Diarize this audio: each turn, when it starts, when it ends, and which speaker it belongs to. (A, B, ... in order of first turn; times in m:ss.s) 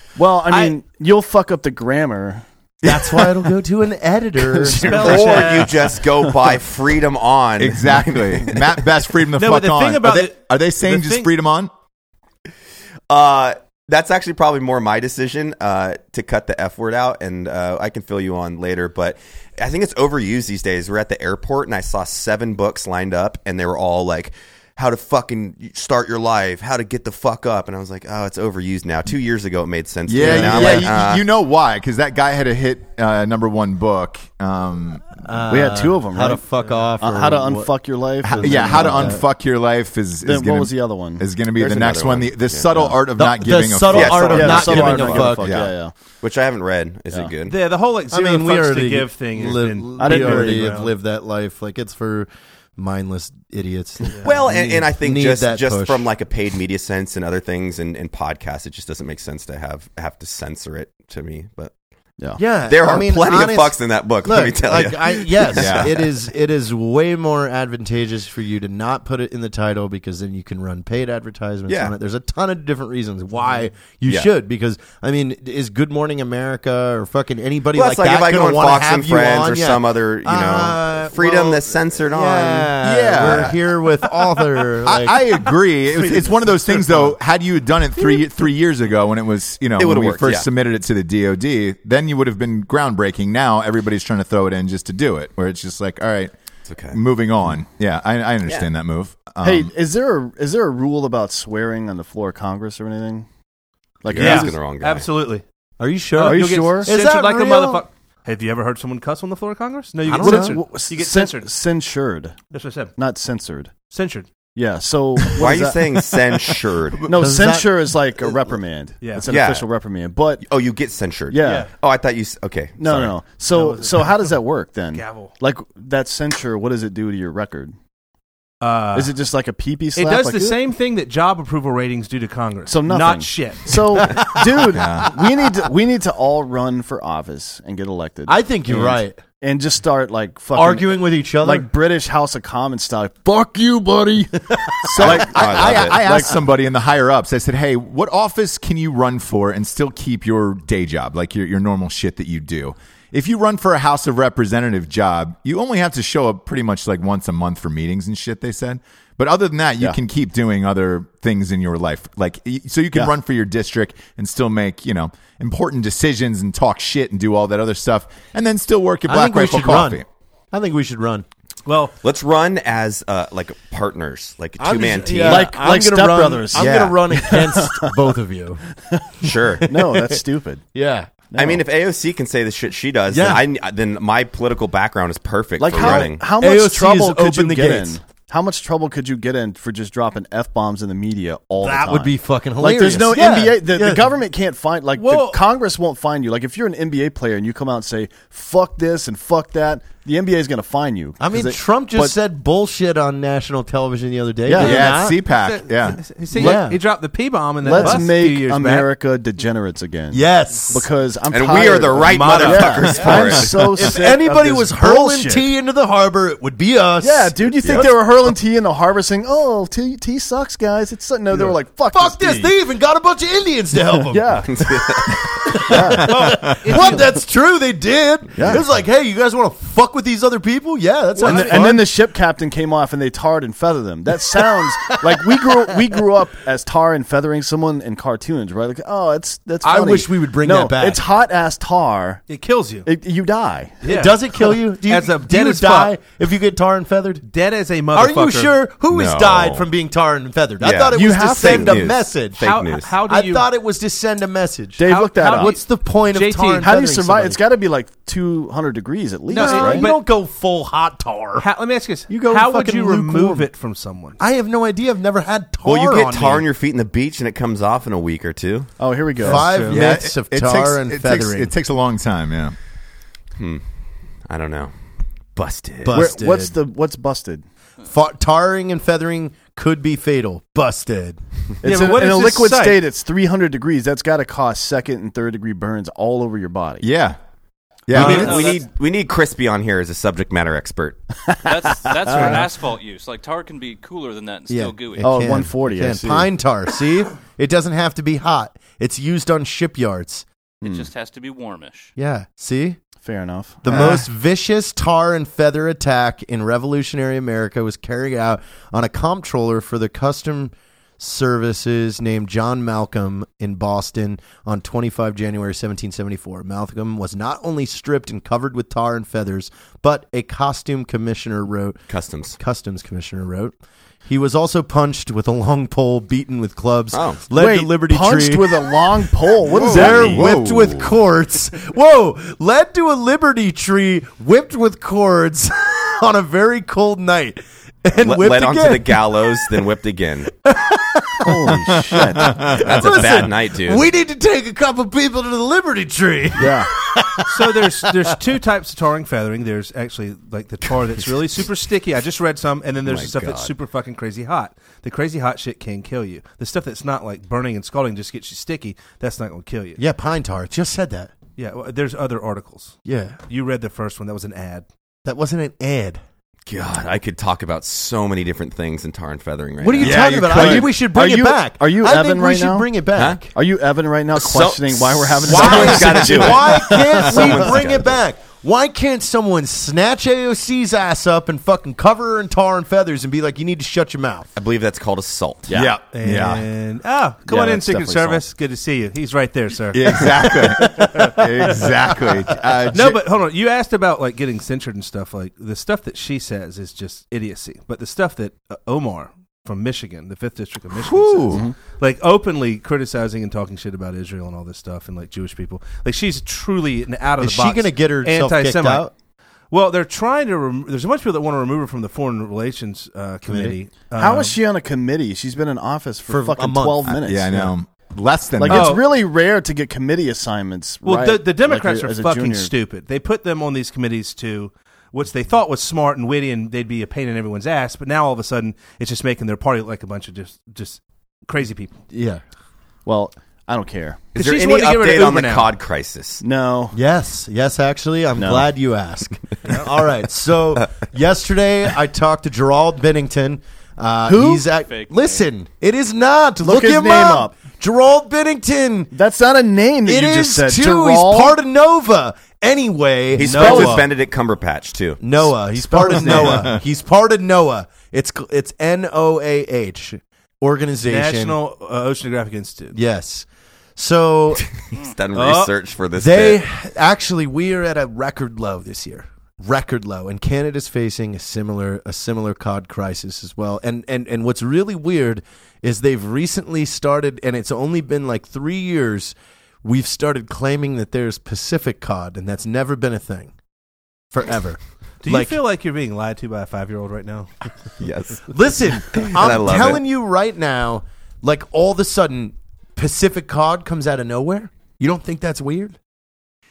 0:00.2-0:02.4 A
0:00.5-0:00.7 B
0:02.8-0:05.5 C
0:02.9-0:03.3 D
0:04.6-0:05.6 A
0:04.7-0:05.9 B
0:04.8-0:08.8 E
0:07.6-0:11.7 D
0:09.4-0:11.3 B
0:13.1-0:31.2 E
0:30.1-0:35.0 D
0:30.2-0:30.8 C
0:35.2-0:37.7 C
0:35.5-0:36.5 A
0:37.0-0:39.2 A
0:38.2-0:45.7 D
0:38.3-0:39.2 C
0:40.2-0:41.3 A
0:41.6-0:42.9 E
0:43.2-0:45.6 C
0:43.9-0:45.4 E
0:44.1-0:45.9 A
0:46.2-0:47.6 E
0:47.5-0:50.9 B
0:48.1-0:56.1 C
0:50.0-0:50.7 A
0:54.2-1:01.7 E
1:02.4-1:25.2 C
1:02.7-1:06.0 E
1:05.5-1:05.9 D
1:11.7-1:11.9 E
1:17.7-1:22.7 E
1:22.8-1:23.8 D
1:24.8-1:36.3 D
1:29.8-1:30.5 E
1:36.7-1:37.0 E
1:36.9-1:39.7 D
1:39.4-1:43.3 A
1:44.0-1:44.7 A
1:44.1-1:45.1 E
1:44.2-1:45.4 B
1:45.8-1:47.8 C
1:46.2-1:51.5 B
1:46.2-1:46.9 A
1:50.1-1:50.6 C
1:50.2-1:52.4 A
1:52.5-1:52.9 B
1:53.0-1:53.8 A
1:53.9-1:54.3 B
1:54.6-1:55.8 A
1:55.4-1:57.0 E
1:57.0-2:00.4 A
1:57.1-1:58.4 C
1:59.0-1:59.3 B
1:59.3-1:59.7 E
2:00.4-2:03.2 E
2:01.3-2:01.7 A
2:01.4-2:01.7 B
2:02.8-2:07.8 A
2:03.5-2:04.2 B
2:04.9-2:05.4 B
2:08.6-2:09.2 B
2:08.9-2:10.6 A
2:10.0-2:14.3 B
2:12.7-2:23.3 A
2:14.1-2:14.5 C
2:14.7-2:15.2 D
2:18.3-2:19.2 C
2:20.5-2:21.7 C
2:23.3-2:25.1 C
2:24.9-2:50.1 D
2:25.0-2:26.4 A
2:25.0-2:26.0 E
2:49.1-2:51.3 C
2:51.7-2:51.9 B
2:52.0-2:55.5 E
2:54.6-2:58.6 C
2:55.3-2:58.1 A
2:58.9-3:00.6 A
2:59.2-2:59.7 E
2:59.8-3:00.1 C
3:00.7-3:01.1 C
3:01.3-3:01.6 A
3:01.4-3:06.2 E
3:03.1-3:03.4 C
3:05.6-3:22.2 A
3:05.7-3:08.0 C
3:11.6-3:12.0 B
3:11.6-3:14.1 C
3:15.0-3:15.4 B
3:21.2-3:25.2 C
3:24.5-3:24.9 A
3:24.5-3:26.0 D
3:25.3-3:28.9 B
3:26.3-3:26.7 A
3:26.4-3:26.8 C
3:27.6-3:35.4 A
3:27.6-3:28.1 C
3:30.1-3:30.9 C
3:31.3-3:33.8 E
3:32.0-3:33.9 B
3:33.7-3:37.9 C
3:37.0-3:42.5 A
3:41.4-3:44.2 C
3:44.0-3:47.1 A
3:44.5-3:45.2 E
3:45.1-3:51.9 C
3:46.0-3:47.1 B
3:48.4-3:48.7 A
3:51.2-3:51.7 B
3:51.2-4:02.2 A
3:54.4-3:55.1 C
3:59.6-4:01.0 C
4:02.3-4:02.9 B
4:02.8-4:03.8 A
4:03.8-4:05.9 B
4:03.8-4:07.2 C
4:07.3-4:08.5 B
4:07.9-4:12.4 C
4:08.9-4:09.7 E
4:10.6-4:13.0 E
4:10.9-4:11.9 A
4:12.4-4:13.5 B
4:13.1-4:17.4 C
4:14.8-4:15.6 A
4:14.8-4:15.6 B
4:16.1-4:16.7 B
4:16.6-4:19.9 A
4:19.3-4:20.0 B
4:19.3-4:21.4 C
4:21.4-4:24.2 B
4:22.1-4:23.5 C
4:24.2-4:26.4 C
4:25.6-4:28.7 E
4:28.8-4:29.5 A
4:29.2-4:29.8 B
4:29.2-4:31.5 C
4:29.7-4:32.6 D
4:33.4-4:33.6 E
4:34.3-4:34.7 E
4:35.4-4:36.0 E
4:35.8-4:36.6 C
4:35.9-4:37.4 A
4:37.8-4:41.2 C
4:41.6-4:46.9 A
4:41.6-4:42.8 B
4:46.8-4:47.2 D
4:47.9-4:48.5 D
4:47.9-4:51.0 E
4:48.0-4:48.4 B
4:48.1-4:48.6 F
4:51.3-4:52.5 A
4:51.4-4:55.3 F
4:52.1-4:52.4 B
4:54.5-5:00.2 C
4:55.0-4:56.3 A
5:00.6-5:00.9 A
5:00.6-5:01.9 F
5:02.0-5:02.8 C
5:03.0-5:04.1 A
5:03.6-5:21.8 C
5:21.9-5:22.4 E
5:22.4-5:23.6 C
5:24.1-5:39.1 C
5:26.9-5:27.2 E
5:27.3-5:30.3 A
5:29.5-5:30.9 D
5:38.0-5:40.3 E
5:40.4-5:48.1 C
5:41.2-5:43.0 A
5:42.2-5:42.6 D
5:42.6-5:43.9 E
5:46.4-5:46.7 A
5:47.3-5:59.8 B
5:52.8-5:53.5 E
5:59.8-6:01.1 C
6:01.4-6:04.6 B
6:02.8-6:03.2 C
6:05.0-6:06.0 C
6:06.5-6:10.0 E
6:09.6-6:13.3 C
6:09.8-6:10.7 D
6:10.1-6:12.7 A
6:13.0-6:13.2 E
6:13.3-6:17.8 A
6:14.1-6:17.7 E
6:15.3-6:24.3 C
6:15.7-6:16.3 D
6:24.4-6:25.5 E
6:25.5-6:25.8 A
6:25.5-6:26.5 D
6:25.9-6:32.2 B
6:27.3-6:28.2 A
6:29.7-6:33.0 D
6:32.7-6:48.9 B
6:40.7-6:41.5 D
6:47.2-6:48.9 C
6:49.5-6:54.4 B
6:53.3-6:53.6 C
6:54.0-6:57.5 A
6:56.1-6:56.9 C
6:56.8-6:58.8 D
6:58.4-7:02.5 A
6:58.5-6:58.9 B
7:00.8-7:11.8 B
7:11.9-7:12.2 C
7:12.9-7:14.1 A
7:14.2-7:15.5 B
7:14.2-7:16.2 E
7:16.2-7:16.8 A
7:16.7-7:28.9 C
7:18.2-7:18.5 A
7:24.0-7:24.5 A
7:24.5-7:25.2 F
7:26.4-7:27.4 A
7:28.9-7:31.4 A
7:29.9-7:33.8 C
7:33.2-7:35.2 E
7:33.2-7:33.9 B
7:33.3-7:33.8 A
7:35.0-7:41.4 C
7:35.6-7:36.5 A
7:36.2-7:36.6 D
7:40.8-7:42.8 B
7:42.7-7:44.5 C
7:44.7-7:46.4 E
7:45.1-7:45.5 B
7:46.0-8:03.3 C
8:04.1-8:05.4 C
8:05.0-8:07.3 B
8:07.8-8:09.8 E
8:08.3-8:15.8 C